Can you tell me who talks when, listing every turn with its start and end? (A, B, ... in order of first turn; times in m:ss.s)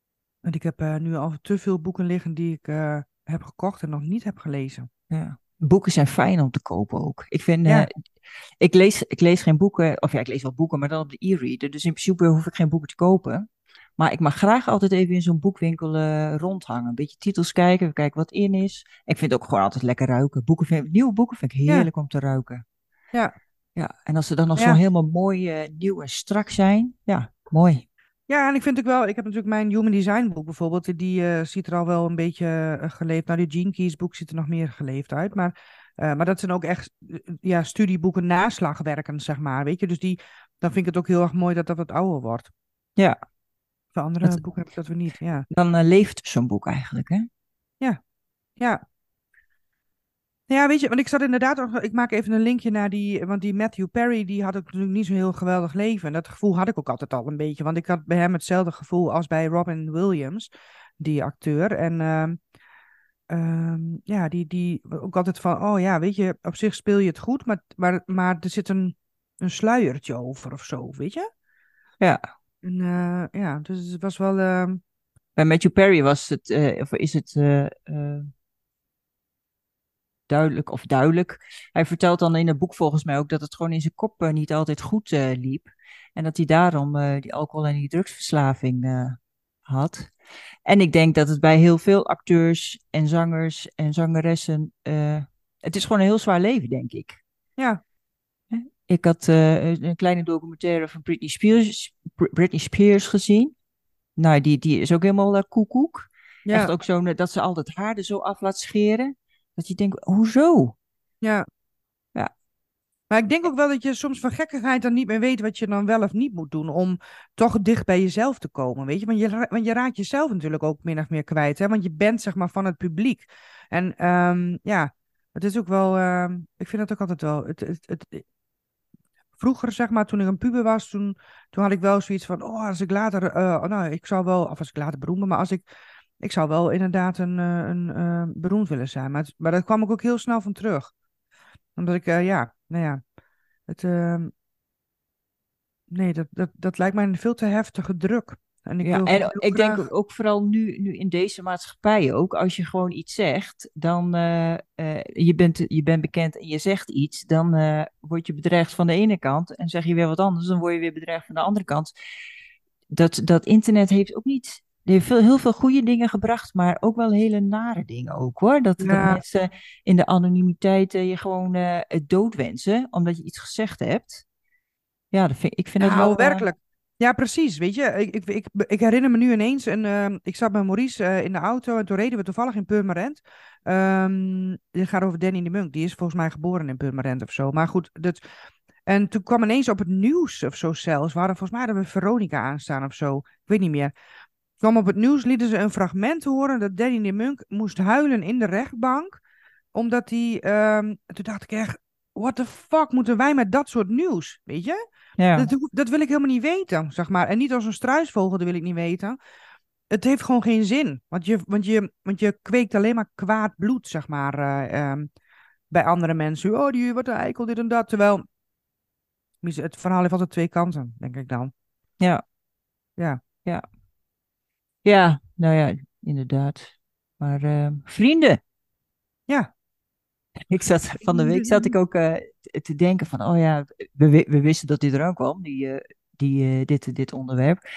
0:00.4-0:04.9 A
0:05.1-0:07.9 B
0:08.6-0:22.6 B
0:23.8-0:27.9 B
0:28.3-0:42.5 A
0:43.9-0:45.5 A
0:45.5-0:47.3 B
0:50.5-1:02.4 A
1:03.3-1:11.3 A
1:12.6-1:14.8 A
1:15.4-1:18.3 B
1:20.3-1:30.1 B
1:30.7-1:37.2 B
1:38.5-1:43.5 B
1:44.2-1:50.8 B
1:46.5-1:46.7 A
1:53.1-2:08.2 A
2:09.4-2:15.7 A
2:16.2-2:20.9 A
2:21.8-2:23.0 A
2:23.7-2:24.3 A
2:25.9-2:29.9 A
2:28.8-2:41.9 B
2:42.9-2:54.2 B
2:48.8-2:49.2 A
2:55.1-2:56.5 B
2:55.8-3:08.2 A
3:08.9-3:13.9 A
3:14.6-3:19.2 A
3:19.7-3:24.8 A
3:25.2-3:25.5 B
3:25.4-3:29.2 A
3:29.9-3:35.1 A
3:35.7-3:38.2 A
3:39.4-3:41.5 A
3:44.8-3:48.4 B
3:50.5-3:57.6 B
3:51.0-3:51.7 A